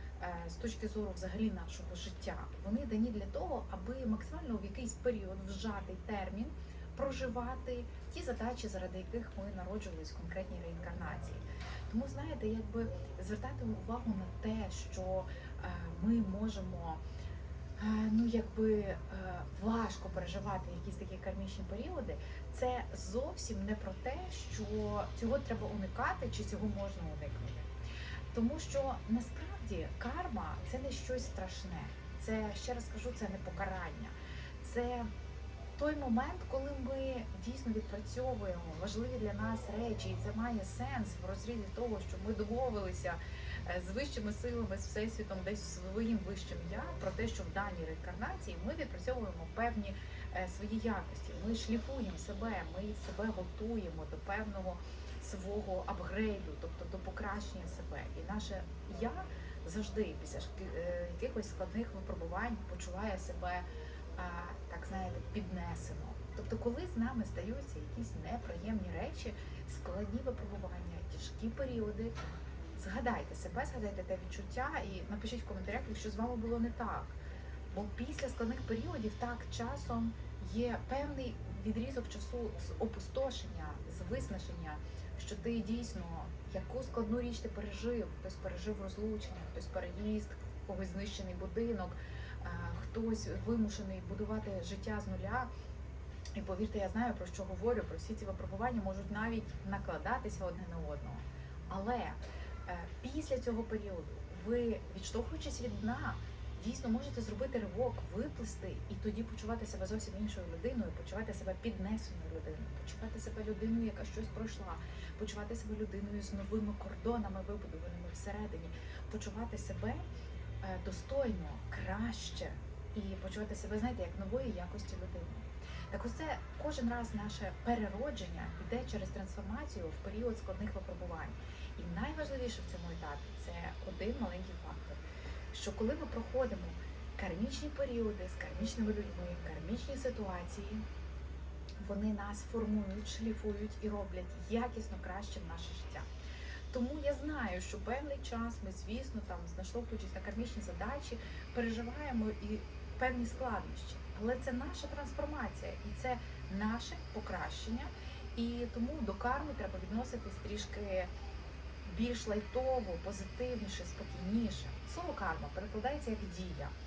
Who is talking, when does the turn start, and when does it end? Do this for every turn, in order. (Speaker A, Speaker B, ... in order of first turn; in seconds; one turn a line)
Speaker A: 0.2-17.0
Speaker A: 17.8-27.7
Speaker A: 28.3-35.1
Speaker A: 35.8-63.6
Speaker A: 64.2-72.2
Speaker A: 72.8-77.2
Speaker A: 77.7-95.5
Speaker A: 96.3-120.0
Speaker A: 120.6-135.0
Speaker A: 135.5-140.8
Speaker A: 141.8-146.1
Speaker A: 146.7-161.1
Speaker A: 161.9-166.7